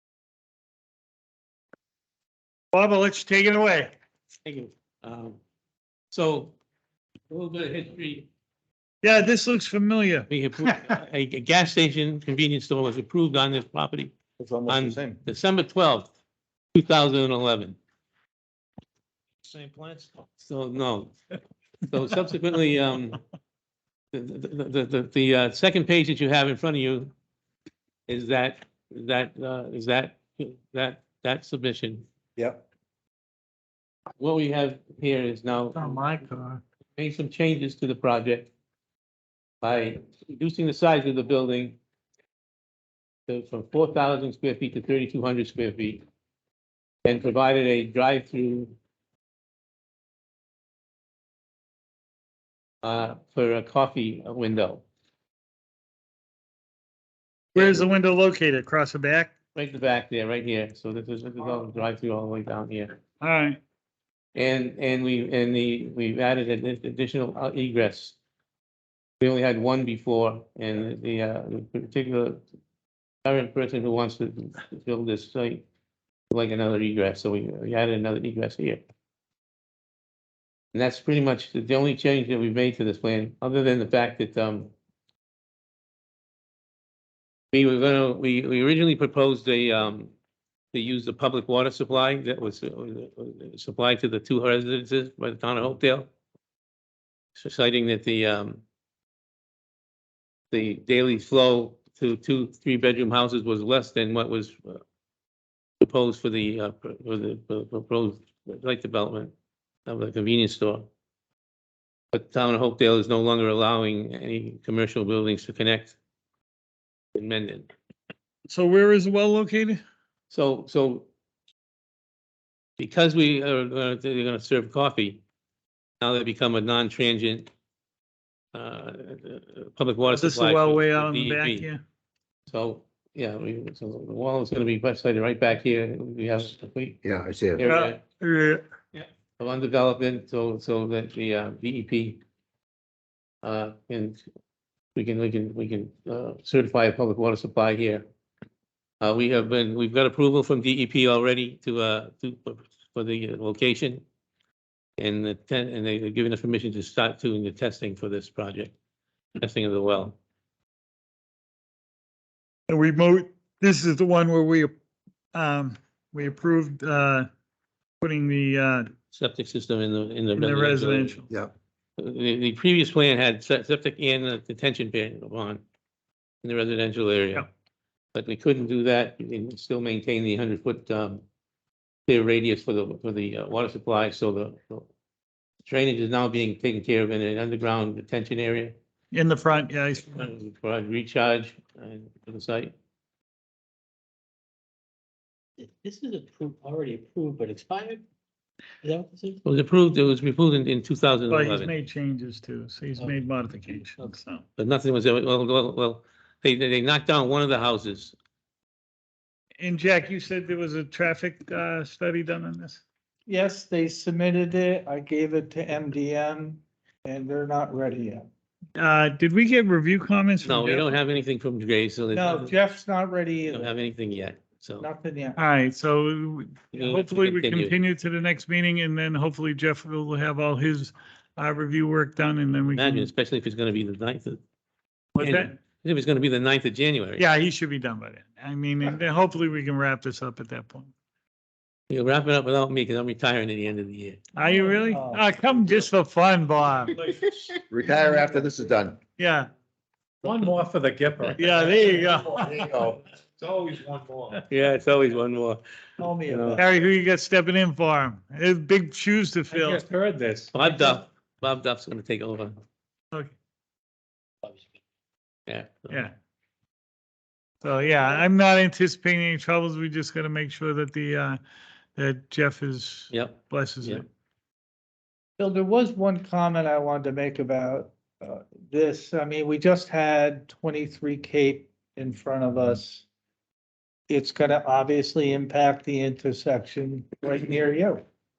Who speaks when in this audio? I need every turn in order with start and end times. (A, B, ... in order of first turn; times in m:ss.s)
0:02.7-0:03.9 A
0:04.4-0:05.4 B
0:06.1-0:06.5 B
0:07.3-0:08.3 B
0:09.0-0:10.3 A
0:10.3-0:14.1 B
0:14.6-0:15.0 C
0:14.7-0:16.1 B
0:14.7-0:15.0 D
0:16.7-0:17.8 B
0:19.5-0:20.1 D
0:20.4-0:21.1 B
0:21.9-0:23.2 B
0:24.1-0:27.1 B
0:28.1-0:32.0 B
0:34.2-0:36.0 B
0:35.8-0:36.6 E
0:37.0-0:38.5 B
0:39.6-0:41.8 B
0:43.3-0:46.0 B
0:47.0-0:48.7 B
0:52.8-0:54.8 B
0:57.5-0:59.3 A
0:57.6-0:57.8 B
0:59.5-1:03.0 B
1:03.2-1:03.6 A
1:04.3-1:08.1 B
1:09.2-1:12.4 B
1:13.2-1:15.6 B
1:16.3-1:18.8 B
1:20.7-1:24.7 B
1:27.5-1:30.1 B
1:30.7-1:36.1 B
1:37.4-1:38.6 B
1:40.5-1:44.8 B
1:45.8-1:49.3 B
1:49.9-1:50.9 B
1:52.1-1:56.0 B
1:57.1-1:57.7 B
1:58.5-1:59.8 A
2:00.3-2:01.0 B
2:02.8-2:05.2 B
2:06.0-2:07.5 B
2:08.5-2:11.7 B
2:10.1-2:11.8 A
2:12.5-2:17.0 B
2:17.0-2:17.7 C
2:17.6-2:18.0 B
2:17.6-2:18.6 A
2:18.9-2:22.2 B
2:23.4-2:24.2 B
2:24.9-2:28.0 B
2:29.0-2:34.0 B
2:35.0-2:38.7 B
2:39.4-2:40.2 B
2:42.7-2:44.7 A
2:45.3-2:47.3 A
2:48.0-2:48.9 A
2:49.1-2:51.2 B
2:50.3-2:51.3 A
2:52.0-2:55.6 B
2:56.4-2:57.5 B
2:58.1-3:01.2 B
3:02.1-3:04.9 B
3:05.6-3:08.7 B
3:09.1-3:10.1 A
3:10.0-3:12.7 B
3:15.6-3:18.0 F
3:18.8-3:19.4 F
3:19.4-3:21.7 B
3:21.3-3:24.4 A
3:24.6-3:28.1 B
3:29.6-3:32.8 A
3:33.3-3:38.3 E
3:38.8-3:41.0 A
3:40.4-3:42.5 B
3:42.1-3:43.7 E
3:43.5-3:44.9 B
3:44.8-3:45.4 E
3:45.4-3:53.1 A
3:46.7-3:47.8 B
3:52.7-3:54.4 B
3:55.2-3:55.5 A
3:55.2-3:57.2 B
3:57.2-4:00.9 A
4:01.9-4:04.2 B
4:04.4-4:07.0 A
4:04.9-4:05.2 D
4:07.7-4:09.0 C
4:09.2-4:09.5 A
4:10.2-4:14.4 D
4:11.3-4:12.8 A
4:12.5-4:12.9 C
4:14.4-4:15.6 B
4:16.0-4:16.6 E
4:16.2-4:16.6 B
4:16.5-4:19.8 A
4:19.5-4:21.0 D
4:20.5-4:22.6 B
4:25.5-4:26.1 B
4:25.9-4:26.1 A
4:27.6-4:31.4 A
4:32.0-4:34.0 A
4:33.1-4:34.0 B
4:35.4-4:43.0 E
4:44.1-4:48.0 E